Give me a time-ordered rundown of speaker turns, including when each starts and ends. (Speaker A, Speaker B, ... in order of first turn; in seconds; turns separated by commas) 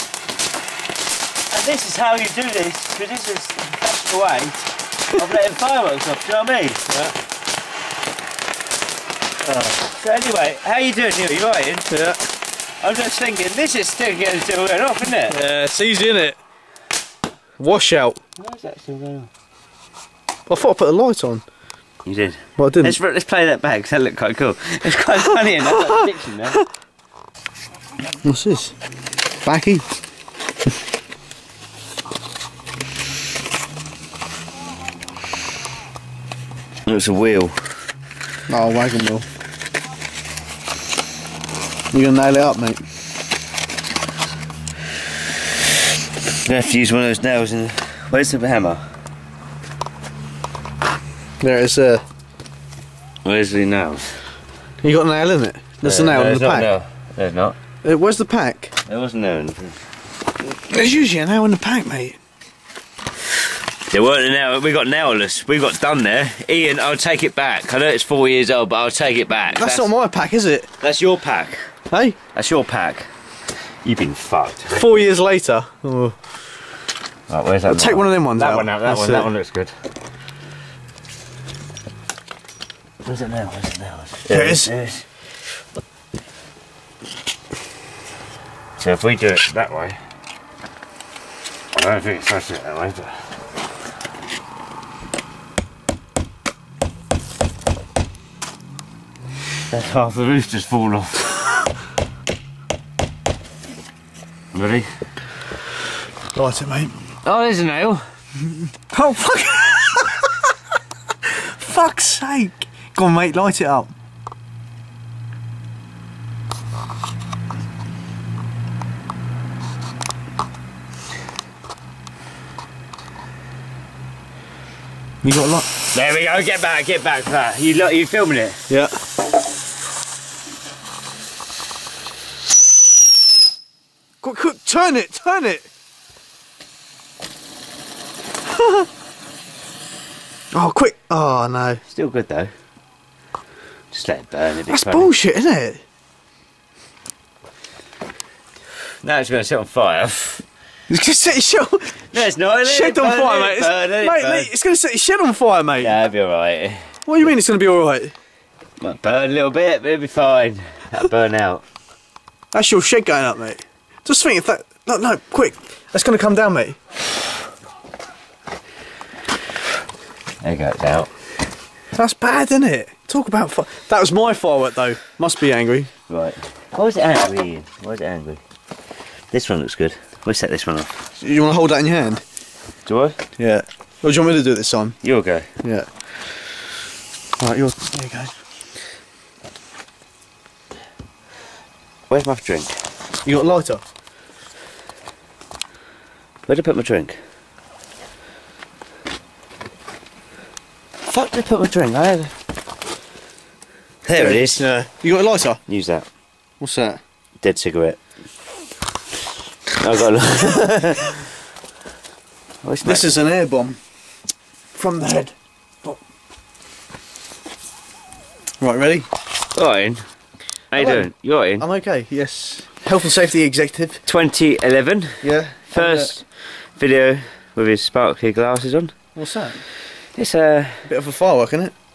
Speaker A: 1.5-7.0, Speaker A: 9.6-11.9, Speaker B: 11.9-12.2, Speaker A: 12.8-15.4, Speaker B: 15.2-16.4, Speaker B: 17.6-18.2, Speaker A: 18.4-19.3, Speaker B: 20.5-21.4, Speaker A: 22.1-26.6, Speaker B: 22.6-22.9, Speaker B: 25.6-26.0, Speaker B: 28.2-28.7, Speaker B: 29.4-29.9, Speaker A: 36.9-37.6, Speaker B: 38.5-39.2, Speaker B: 41.9-42.8, Speaker A: 46.4-48.8, Speaker B: 51.4-52.0, Speaker A: 53.2-54.0, Speaker B: 54.8-56.7, Speaker A: 55.8-57.6, Speaker B: 57.8-58.7, Speaker A: 58.9-59.8, Speaker B: 60.4-62.2, Speaker A: 63.9-69.9, Speaker B: 69.5-70.7, Speaker A: 70.8-71.7, Speaker B: 71.9-72.2, Speaker A: 72.3-73.1, Speaker A: 73.8-75.0, Speaker B: 74.7-76.2, Speaker A: 77.3-79.7, Speaker B: 77.7-79.3, Speaker A: 83.0-85.1, Speaker B: 84.3-84.7, Speaker A: 88.8-90.0, Speaker A: 91.7-93.2, Speaker A: 99.7-101.5, Speaker A: 104.5-104.9, Speaker B: 106.3-107.0, Speaker A: 107.2-108.0, Speaker B: 108.9-110.3, Speaker B: 111.3-113.9, Speaker B: 125.2-125.8, Speaker A: 125.8-128.6, Speaker B: 128.7-128.9, Speaker B: 134.2-135.7, Speaker B: 138.6-138.9, Speaker B: 140.5-141.8, Speaker A: 141.8-142.5, Speaker A: 143.9-145.1, Speaker B: 144.7-145.8, Speaker A: 149.0-150.4, Speaker B: 150.9-156.0, Speaker A: 152.2-154.5, Speaker A: 155.8-157.0, Speaker B: 157.1-158.1, Speaker A: 158.8-161.6, Speaker B: 162.5-166.8, Speaker A: 170.4-171.1, Speaker B: 171.9-175.9, Speaker A: 176.1-178.4, Speaker A: 179.3-181.0, Speaker B: 181.2-182.2, Speaker A: 182.9-183.2, Speaker B: 183.4-184.9, Speaker A: 185.0-185.5, Speaker B: 187.4-188.3, Speaker A: 192.1-192.8, Speaker B: 193.2-193.8, Speaker A: 196.5-197.2, Speaker A: 201.1-202.3, Speaker A: 204.0-204.7, Speaker B: 204.2-205.6, Speaker A: 205.7-206.1, Speaker B: 206.6-207.0, Speaker A: 207.4-208.0, Speaker A: 209.7-211.2, Speaker A: 212.6-213.1, Speaker B: 212.8-213.8, Speaker B: 214.7-215.3, Speaker B: 218.6-219.1, Speaker A: 219.6-220.0, Speaker A: 220.7-221.7, Speaker B: 220.7-224.0, Speaker A: 224.1-228.9, Speaker B: 225.2-226.1, Speaker B: 229.2-229.6, Speaker A: 230.2-230.9, Speaker B: 230.8-231.7